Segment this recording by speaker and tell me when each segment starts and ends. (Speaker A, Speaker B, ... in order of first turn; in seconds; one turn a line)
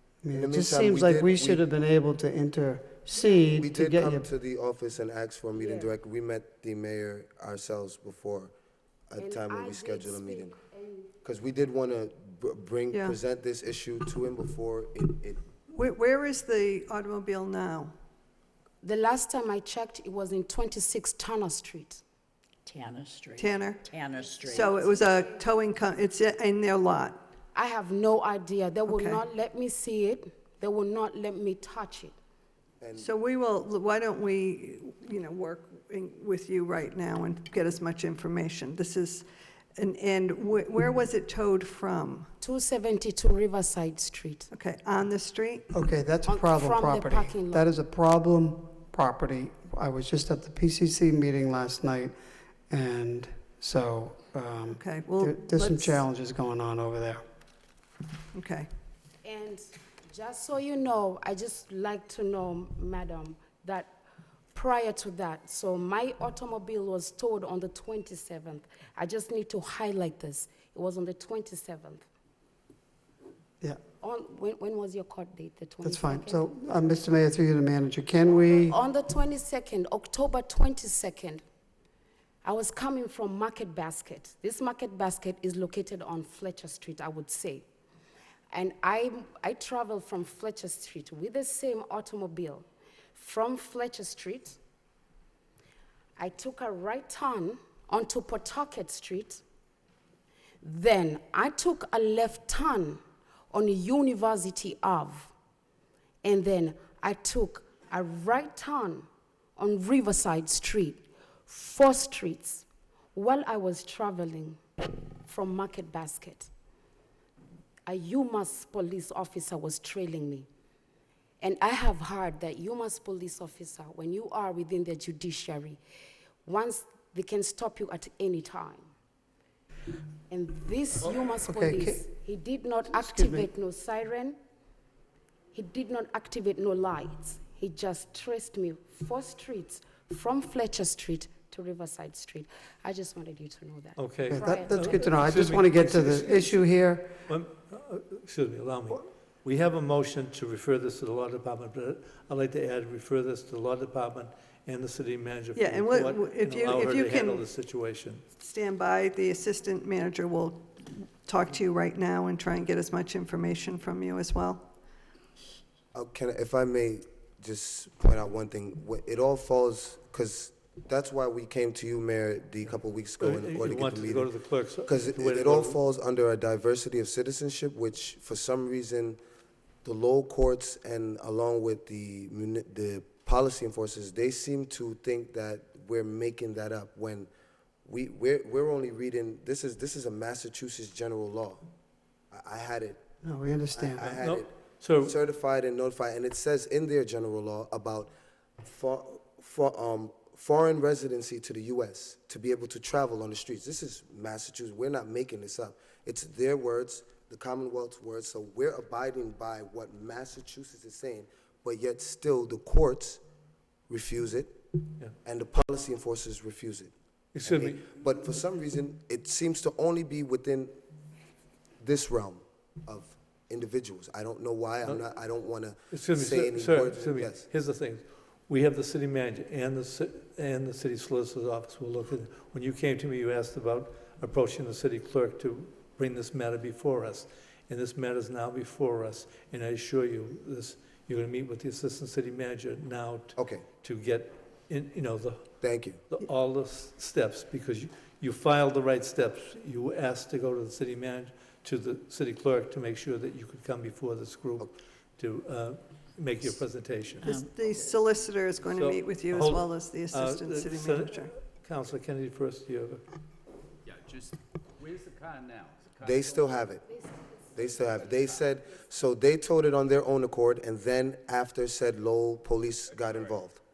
Speaker A: 0.2-4.3
Speaker B: 0.3-1.6
Speaker C: 3.1-3.6
Speaker B: 3.5-8.5
Speaker C: 5.5-5.9
Speaker B: 9.1-10.5
Speaker C: 9.2-11.1
Speaker B: 11.2-15.4
Speaker D: 12.9-13.2
Speaker D: 15.7-17.9
Speaker C: 18.8-22.0
Speaker E: 22.6-25.3
Speaker D: 23.4-27.3
Speaker C: 24.1-25.4
Speaker C: 27.5-32.1
Speaker D: 28.9-29.2
Speaker B: 32.8-33.1
Speaker D: 33.0-39.2
Speaker D: 39.8-42.3
Speaker C: 42.4-44.5
Speaker D: 44.5-45.7
Speaker A: 45.7-52.1
Speaker C: 46.3-47.6
Speaker A: 52.7-57.2
Speaker D: 54.7-56.0
Speaker D: 58.3-58.7
Speaker C: 59.2-64.0
Speaker C: 64.5-72.0
Speaker C: 74.0-76.8
Speaker A: 75.8-78.8
Speaker C: 78.7-81.4
Speaker C: 82.4-87.6
Speaker C: 88.5-94.6
Speaker C: 96.2-99.4
Speaker C: 100.6-105.3
Speaker C: 106.2-114.6
Speaker C: 115.2-116.5
Speaker C: 117.8-120.5
Speaker C: 121.4-125.8
Speaker C: 126.4-128.9
Speaker C: 130.3-134.4
Speaker A: 131.4-132.0
Speaker A: 132.8-133.5
Speaker C: 135.5-145.2
Speaker F: 143.9-146.6
Speaker A: 144.3-147.2
Speaker F: 147.3-158.2
Speaker D: 155.5-157.5
Speaker D: 158.4-164.7
Speaker B: 165.9-174.3
Speaker F: 173.2-175.8
Speaker B: 174.8-179.2
Speaker B: 179.8-187.3
Speaker B: 187.8-191.6
Speaker B: 192.3-193.0
Speaker A: 193.2-194.2
Speaker B: 193.7-198.1
Speaker F: 194.0-195.2
Speaker B: 198.6-213.2
Speaker B: 213.9-214.6
Speaker B: 215.2-216.9
Speaker F: 217.3-217.9
Speaker B: 217.4-220.8
Speaker B: 221.8-227.4
Speaker F: 225.9-257.3
Speaker B: 243.3-243.7
Speaker B: 245.6-246.0
Speaker E: 257.2-257.5
Speaker D: 257.2-261.3
Speaker G: 257.5-258.1
Speaker F: 258.6-263.0
Speaker G: 263.9-266.8
Speaker B: 266.0-266.8
Speaker C: 266.8-269.1
Speaker G: 267.5-268.5
Speaker B: 267.5-273.6
Speaker G: 272.9-273.4